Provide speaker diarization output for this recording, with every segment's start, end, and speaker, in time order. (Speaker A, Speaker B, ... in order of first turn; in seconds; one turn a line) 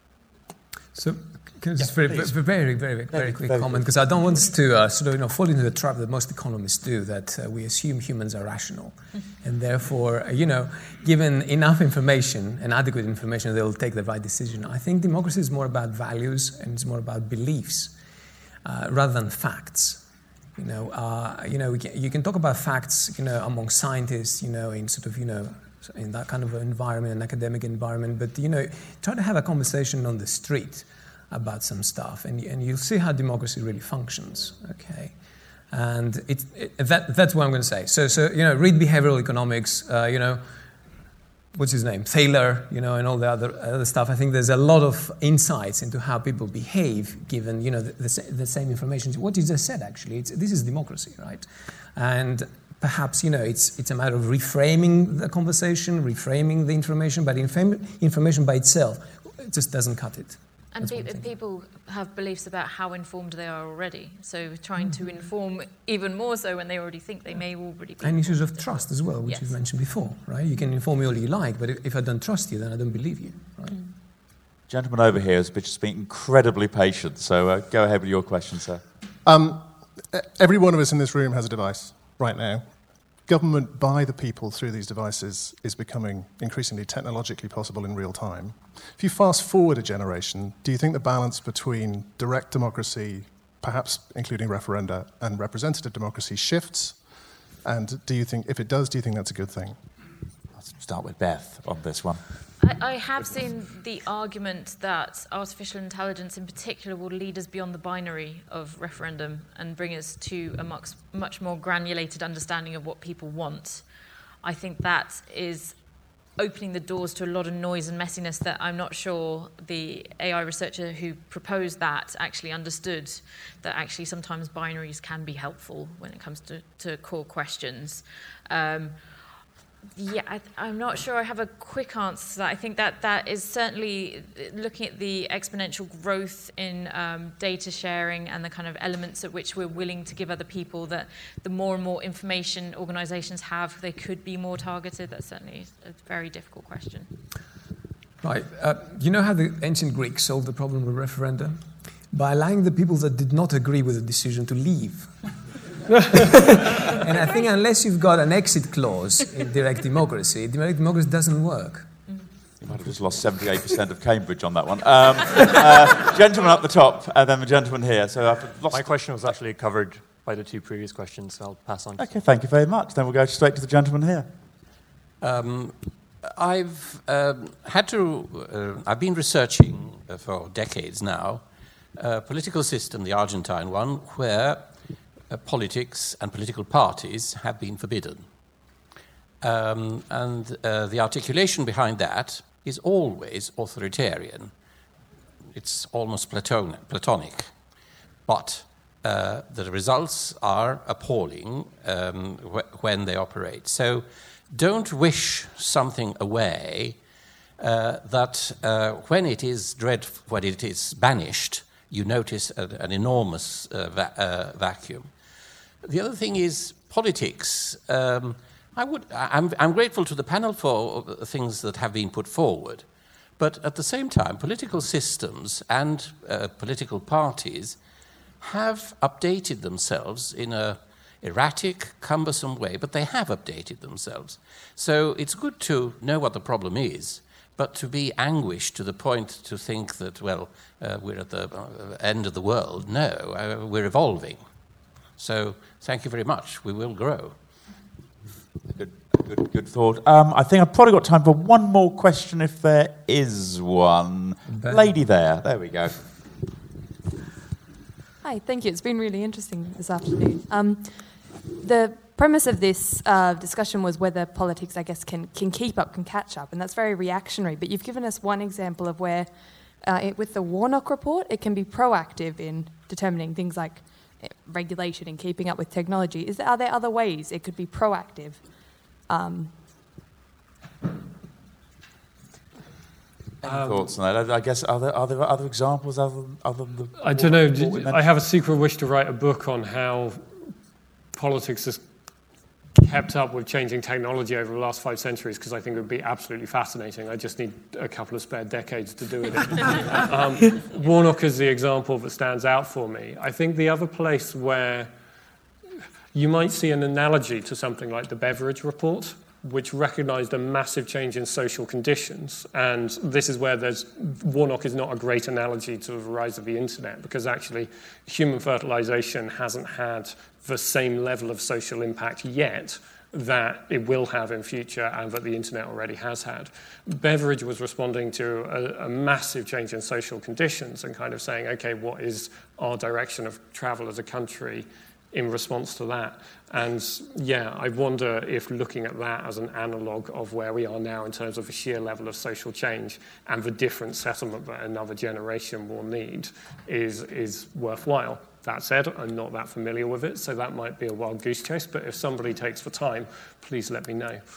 Speaker A: 0.9-17.9
Speaker B: 1.8-4.0
Speaker A: 18.6-20.0
Speaker A: 20.6-35.1
Speaker A: 35.7-40.5
Speaker A: 41.5-61.3
Speaker C: 60.7-69.6
Speaker A: 64.8-65.2
Speaker A: 68.0-73.8
Speaker B: 74.7-78.8
Speaker D: 79.2-100.1
Speaker B: 100.5-102.2
Speaker C: 102.6-113.8
Speaker C: 114.4-115.8
Speaker C: 116.4-129.0
Speaker C: 129.9-147.1
Speaker A: 148.2-155.4
Speaker A: 156.1-161.9
Speaker B: 162.6-168.8
Speaker E: 168.7-172.0
Speaker B: 172.0-174.3
Speaker F: 175.2-188.3
Speaker F: 189.4-194.5
Speaker F: 195.5-197.6
Speaker F: 198.2-207.0
Speaker F: 207.6-215.1
Speaker F: 215.8-227.8
Speaker F: 228.4-244.5
Speaker F: 245.1-247.6
Speaker B: 248.7-256.1
Speaker A: 254.5-254.9
Speaker G: 258.2-279.5
Speaker B: 283.4-288.0
Speaker H: 283.4-283.9
Speaker H: 287.0-290.3
Speaker H: 291.1-291.8
Speaker H: 292.8-304.9
Speaker H: 306.1-354.2